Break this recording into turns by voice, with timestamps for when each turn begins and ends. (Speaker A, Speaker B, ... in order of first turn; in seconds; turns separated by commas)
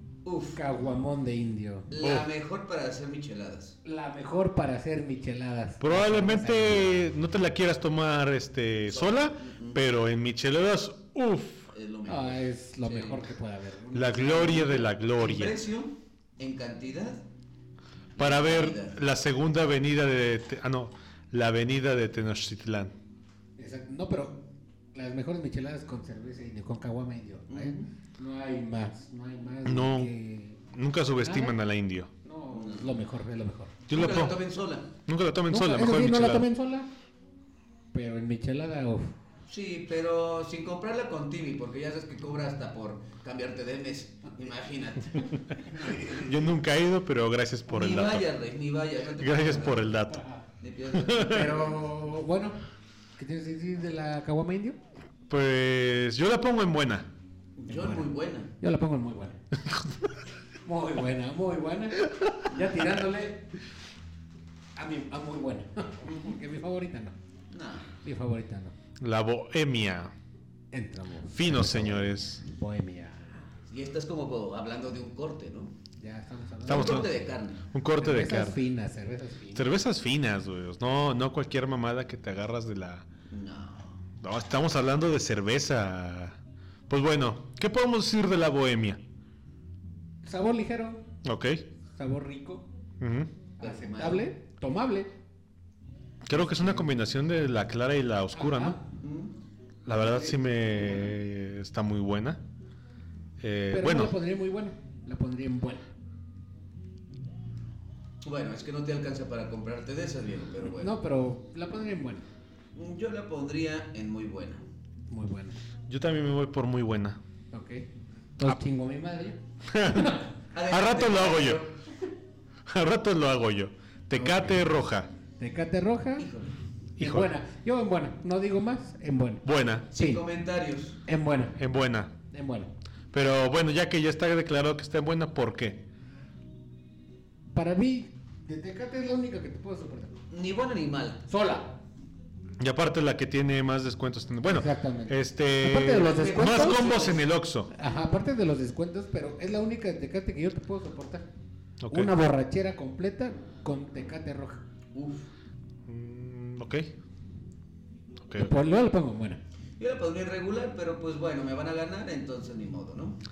Speaker A: 0.2-0.6, Speaker B: 0.6-1.9, Speaker A: 1.9-3.8, Speaker C: 2.0-2.3, Speaker B: 3.9-7.1, Speaker C: 5.8-11.7, Speaker A: 8.9-9.8, Speaker A: 11.7-13.2, Speaker B: 12.1-14.9, Speaker C: 13.9-15.6, Speaker A: 15.2-17.2, Speaker A: 18.1-19.0, Speaker C: 18.2-22.9, Speaker B: 23.6-30.6, Speaker A: 27.5-27.9, Speaker C: 29.6-30.1, Speaker C: 30.7-32.1, Speaker B: 31.2-31.6, Speaker B: 32.2-33.8, Speaker A: 32.5-33.0, Speaker C: 33.9-34.4, Speaker A: 33.9-34.9, Speaker C: 35.1-36.5, Speaker B: 35.5-36.9, Speaker B: 37.9-39.1, Speaker A: 39.5-46.4, Speaker C: 46.0-48.3, Speaker A: 47.7-49.9, Speaker C: 49.2-50.2, Speaker A: 50.6-51.9, Speaker C: 50.9-51.5, Speaker B: 51.2-52.6, Speaker B: 53.2-54.8, Speaker C: 55.3-57.1, Speaker A: 57.6-58.5, Speaker B: 57.7-58.1, Speaker B: 58.6-59.4, Speaker C: 59.7-60.0, Speaker B: 60.6-63.5, Speaker B: 64.8-67.2, Speaker A: 66.0-66.4, Speaker A: 67.5-68.0, Speaker B: 68.0-68.8, Speaker C: 69.0-70.1, Speaker B: 70.7-73.5, Speaker C: 71.3-72.4, Speaker A: 73.7-75.7, Speaker B: 76.0-77.2, Speaker C: 76.7-77.1, Speaker A: 76.7-77.7, Speaker C: 77.7-78.6, Speaker B: 78.0-79.8, Speaker C: 79.5-83.1, Speaker A: 83.3-84.0, Speaker C: 84.2-86.4, Speaker C: 86.9-89.0, Speaker B: 90.2-91.0, Speaker C: 91.2-91.6, Speaker B: 91.9-92.7, Speaker C: 93.0-93.3, Speaker B: 93.6-95.1, Speaker A: 93.6-94.3, Speaker C: 96.2-98.8, Speaker B: 96.3-96.9, Speaker B: 98.3-98.8, Speaker A: 99.0-99.3, Speaker C: 99.8-102.4, Speaker B: 99.9-100.6, Speaker C: 103.4-104.1, Speaker B: 103.7-105.8, Speaker A: 108.2-110.9, Speaker B: 110.8-112.3, Speaker A: 112.8-114.6, Speaker B: 115.1-115.6, Speaker C: 115.9-117.2, Speaker B: 117.5-117.9, Speaker B: 118.4-120.3, Speaker C: 119.7-121.6, Speaker A: 120.5-121.8, Speaker C: 122.7-125.1, Speaker B: 124.2-124.5, Speaker B: 125.4-126.3, Speaker A: 126.2-126.6, Speaker C: 127.0-127.3, Speaker B: 127.0-130.2, Speaker C: 129.4-129.9, Speaker A: 129.9-131.0, Speaker B: 131.1-131.6, Speaker C: 131.6-132.1, Speaker B: 132.3-132.7, Speaker C: 133.1-135.9, Speaker B: 137.5-140.2, Speaker A: 140.3-141.2, Speaker B: 141.3-141.8, Speaker C: 142.6-147.7, Speaker B: 144.5-146.8, Speaker A: 145.9-147.2, Speaker B: 147.7-151.3, Speaker C: 151.8-152.1, Speaker B: 151.9-154.6, Speaker A: 154.9-155.3, Speaker C: 155.9-156.9, Speaker C: 158.3-158.5, Speaker B: 158.4-159.4, Speaker A: 159.8-163.2